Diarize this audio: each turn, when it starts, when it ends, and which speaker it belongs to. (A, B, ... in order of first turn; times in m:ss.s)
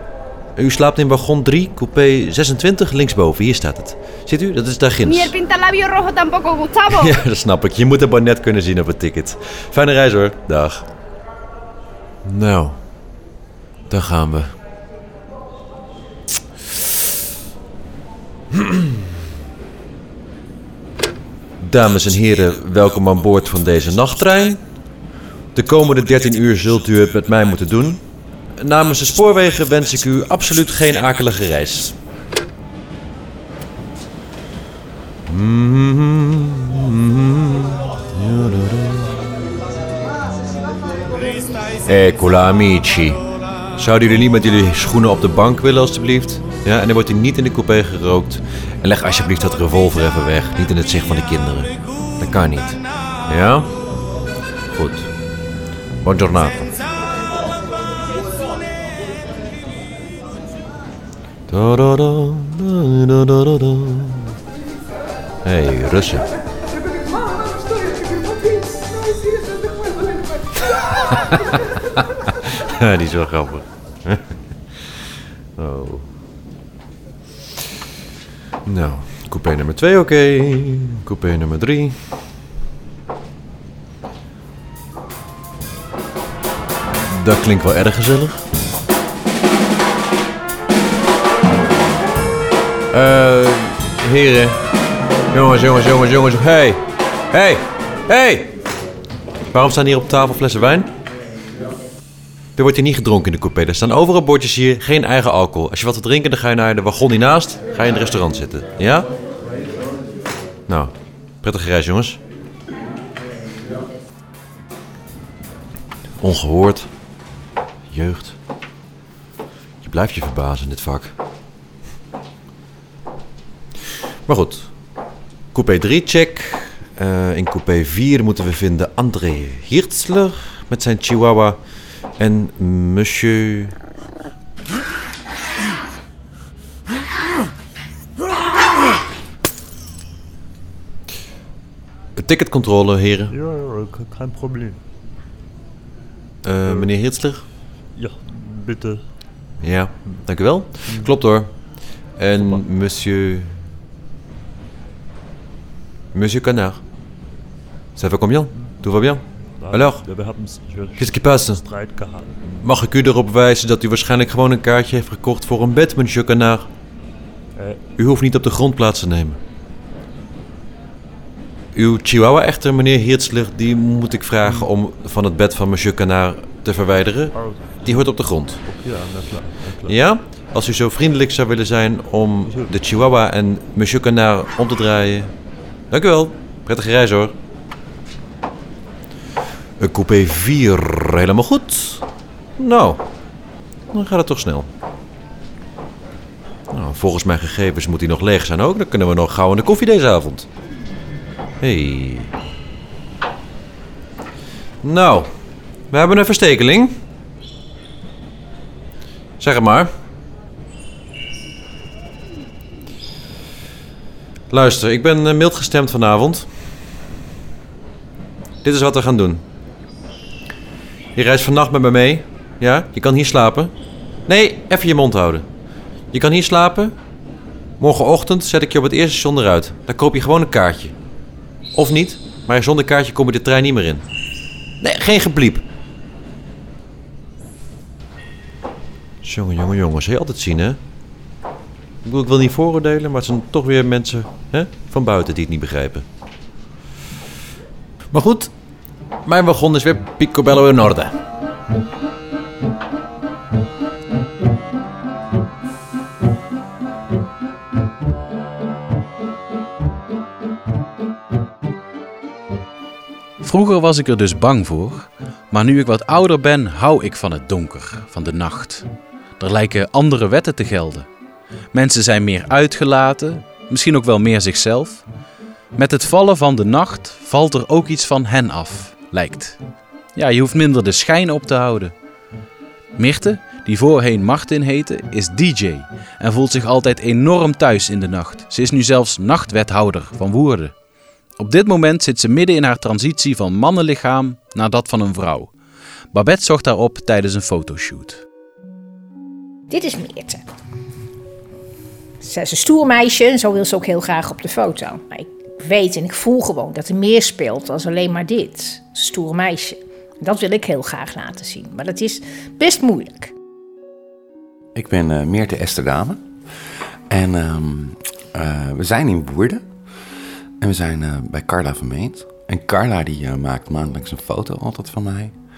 0:00.6-0:05.3 A
0:05.0-0:07.1 B
0:06.9-0:10.9 A
0:12.2-0:12.8 A
0:13.9-0:14.6 A
0:21.6-0:24.9 A
0:25.5-0:28.0 A
0:28.6-0:32.0 A
0:35.3-0:39.1 A
0:41.9-0:43.2 A
0:43.8-0:53.8 A
0:54.7-0:55.1 A
0:56.0-0:56.8 A
1:01.5-1:04.3 A
1:05.4-1:06.3 A
1:12.7-1:15.0 A
1:15.6-1:16.1 A
1:18.7-1:22.1 A
1:27.1-1:28.4 A
1:32.9-1:34.6 A
1:35.3-1:38.5 A
1:39.5-1:40.9 A
1:42.6-1:49.1 A
1:50.7-1:52.2 A
1:56.2-1:56.9 A
1:57.9-1:58.4 A
1:59.8-2:01.1 A
2:04.3-2:04.7 A
2:05.5-2:13.8 A
2:22.2-2:23.3 A
2:23.3-2:24.8 C
2:26.4-2:27.5 A
2:26.6-2:26.9 C
2:27.9-2:29.2 C
2:29.6-2:33.6 A
2:30.0-2:31.2 C
2:32.3-2:32.6 C
2:36.1-2:36.8 A
2:38.0-2:41.9 A
2:38.5-2:42.7 C
2:42.6-2:46.7 A
2:47.5-2:47.8 C
2:48.0-2:49.4 A
2:51.7-2:58.7 A
2:54.4-2:54.7 C
2:57.3-3:00.0 C
2:59.8-3:05.3 A
3:02.4-3:02.7 C
3:05.9-3:07.4 A
3:09.8-3:12.1 A
3:12.6-3:13.0 A
3:13.9-3:14.7 A
3:16.7-3:20.5 A
3:21.6-3:22.3 A
3:24.8-3:25.3 A
3:25.9-3:27.0 A
3:29.4-3:29.9 A
3:34.5-3:36.5 A
3:38.6-3:39.4 A
3:41.2-3:43.7 A
3:44.3-3:45.5 A
3:46.1-3:47.0 A
3:47.8-3:51.0 A
3:51.7-3:54.0 A
3:54.8-3:55.6 A
3:59.2-4:00.8 A
4:02.0-4:06.1 A
4:08.1-4:08.5 A
4:09.2-4:11.2 A
4:23.4-4:31.1 D
4:31.7-4:35.0 D
4:35.7-4:39.6 D
4:40.2-4:41.9 D
4:43.0-4:50.7 D
4:51.4-4:55.5 D
4:56.1-4:58.2 D
4:59.7-5:00.4 E
5:02.2-5:13.3 E
5:14.8-5:16.3 F
5:17.1-5:19.7 F
5:20.6-5:25.4 F